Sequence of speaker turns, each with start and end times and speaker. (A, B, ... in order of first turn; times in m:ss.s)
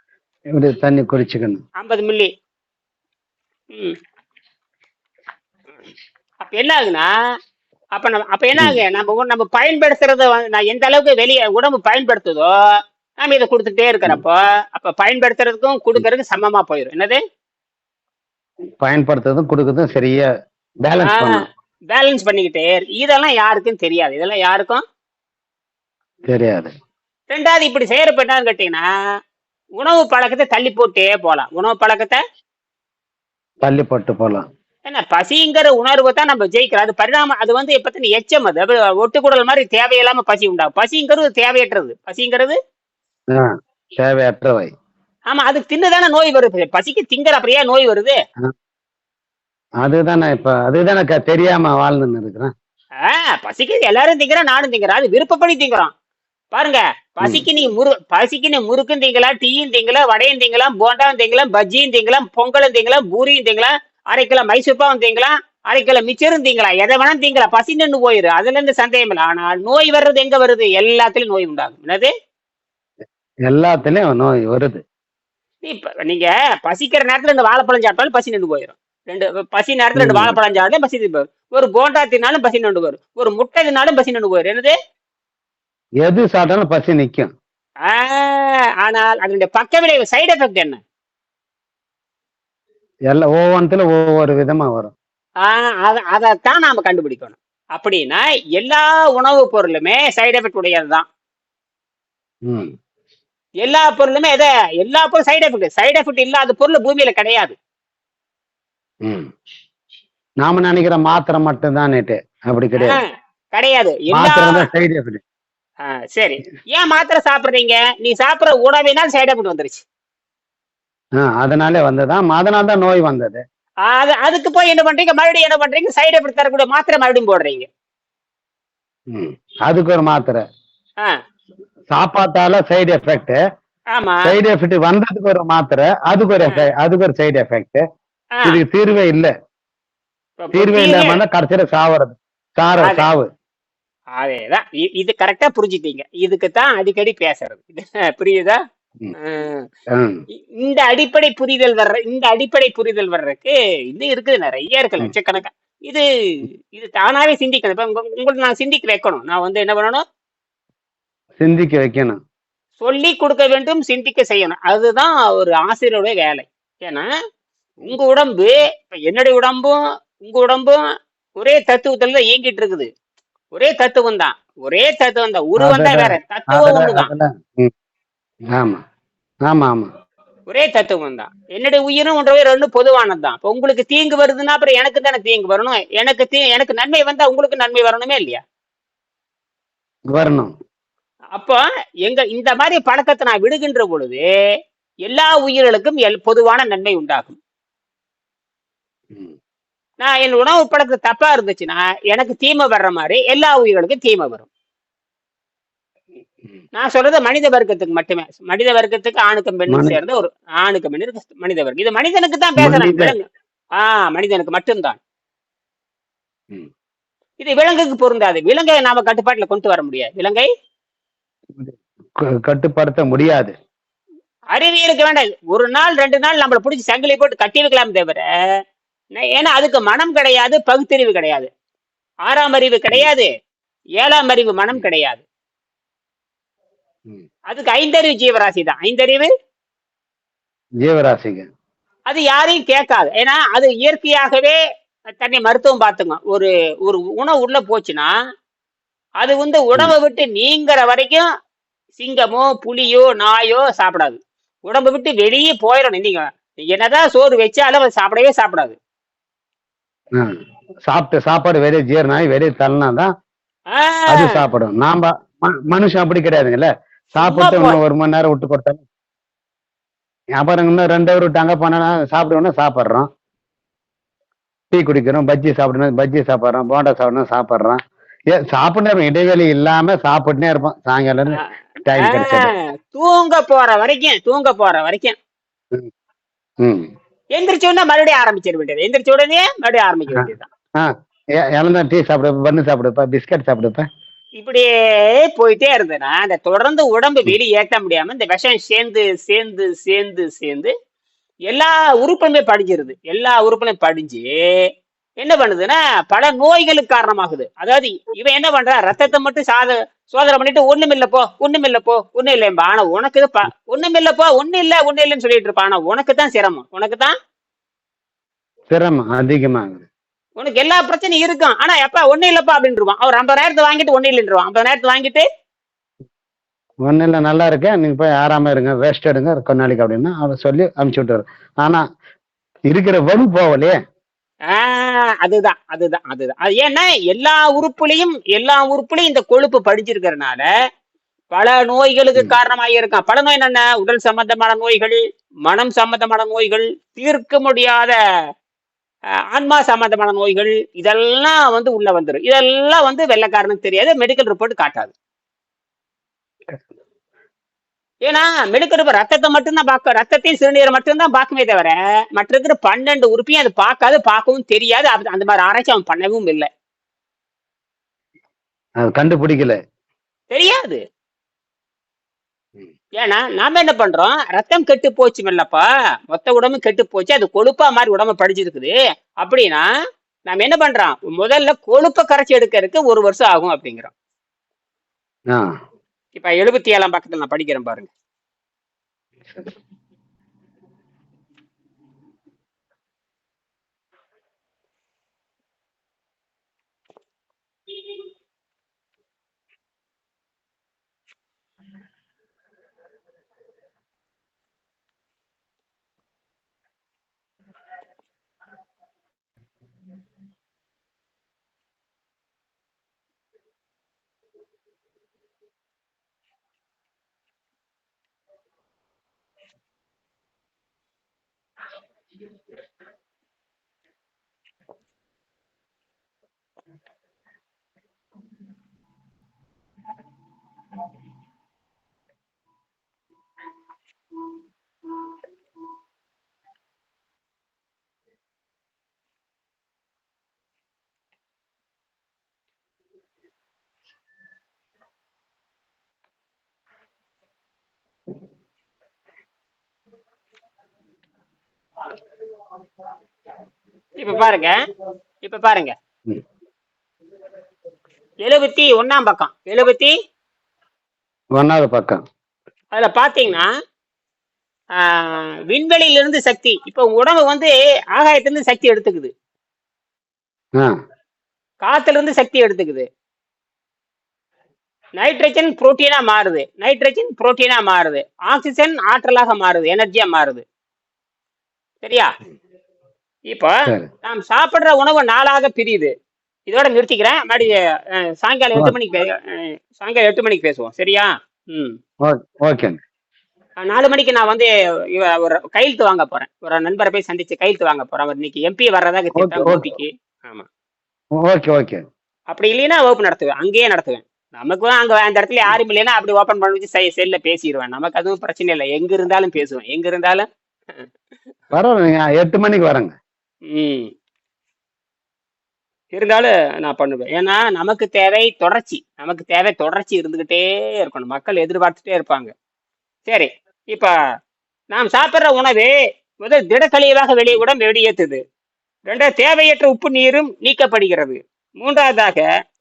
0:00.5-0:01.6 A
0:01.8-0:02.3 B
0:06.4-0:07.1 B
0:08.0-0:12.5 B
0:13.2-0:17.2 B
0:18.8-0:20.3 A
0:20.8-0:21.4 A
0:21.0-0:24.8 B
0:26.3-0:26.7 A
0:27.3-0:28.9 B
0:29.8-0:32.2 B
0:33.6-0:34.4 A
0:34.9-0:42.6 B
0:43.3-0:44.7 A
0:45.3-0:48.2 B
0:49.8-0:52.5 A
0:53.0-0:55.9 B
0:56.5-1:12.1 B
1:13.5-1:14.8 A
1:15.6-1:24.7 B
1:20.0-1:20.4 A
1:26.0-1:27.3 A
1:27.8-1:30.8 B
1:33.1-1:34.9 A
1:35.4-1:41.0 B
1:42.4-1:42.7 A
1:43.6-1:47.5 B
1:49.0-1:49.3 A
1:50.4-1:53.0 A
1:52.8-1:54.7 B
1:54.1-1:55.2 A
1:55.8-1:59.8 B
2:01.2-2:03.4 A
2:03.8-2:07.6 B
2:09.1-2:10.4 A
2:11.9-2:13.4 A
2:13.9-2:14.3 B
2:14.2-2:17.8 A
2:18.4-2:19.3 A
2:20.4-2:21.2 B
2:20.5-2:23.3 A
2:22.8-2:23.1 B
2:24.2-2:28.6 B
2:29.2-2:29.6 B
2:29.9-2:30.2 A
2:30.6-2:40.0 B
2:41.4-2:42.2 A
2:42.8-2:47.1 B
2:47.8-2:50.8 B
2:51.4-2:52.9 B
2:53.5-2:57.1 B
2:55.6-2:57.7 A
2:58.5-2:58.8 A
2:59.5-2:59.9 A
3:00.5-3:08.4 B
3:10.1-3:10.5 A
3:11.3-3:14.2 B
3:15.0-3:17.4 B
3:19.1-3:19.4 A
3:20.0-3:24.5 B
3:26.8-3:33.2 B
3:29.7-3:30.0 A
3:32.6-3:33.1 A
3:33.8-3:35.0 B
3:37.4-3:40.5 B
3:41.5-3:43.5 A
3:44.5-3:48.2 B
3:49.1-3:51.5 B
3:52.2-3:53.3 B
3:54.0-3:55.2 B
3:57.5-3:59.3 B
4:00.8-4:01.5 A
4:02.1-4:04.6 B
4:05.1-4:08.1 B
4:09.2-4:11.2 B
4:12.0-4:18.8 B
4:20.8-4:23.1 A
4:23.7-4:24.4 B
4:24.1-4:28.8 A
4:27.1-4:27.8 B
4:30.4-4:33.1 A
4:34.7-4:42.5 A
4:41.9-4:45.2 B
4:46.6-4:46.9 A
4:47.3-4:50.5 B
4:50.8-4:53.9 A
4:54.4-5:00.7 B
5:01.5-5:04.3 B
5:05.2-5:17.1 B
5:18.7-5:19.9 A
5:20.4-5:25.2 B
5:26.8-5:31.8 A
5:32.7-5:33.8 A
5:34.5-5:40.4 B
5:41.3-5:47.9 B
5:49.3-5:54.9 B
5:58.0-6:06.5 B
6:08.8-6:09.6 A
6:10.3-6:10.8 B
6:13.0-6:19.6 B
6:20.3-6:23.9 B
6:25.3-6:25.6 A
6:26.2-6:27.9 B
6:29.3-6:29.5 A
7:34.0-7:34.6 B
7:35.2-7:35.7 B
7:38.2-7:39.9 B
7:41.3-7:42.0 A
7:42.7-7:43.5 B
7:44.8-7:49.1 B
7:51.6-7:52.8 B
7:55.0-8:00.4 B
8:01.8-8:02.1 B
8:03.3-8:05.9 B
8:06.5-8:11.7 B
8:12.0-8:12.8 A
8:13.6-8:20.5 B
8:19.1-8:19.7 A
8:21.2-8:21.8 A
8:22.3-8:30.2 B
8:31.5-8:32.9 A
8:33.5-8:33.9 B
8:35.9-8:42.3 B
8:43.1-8:43.9 B
8:44.7-8:48.2 B
8:48.9-8:52.3 B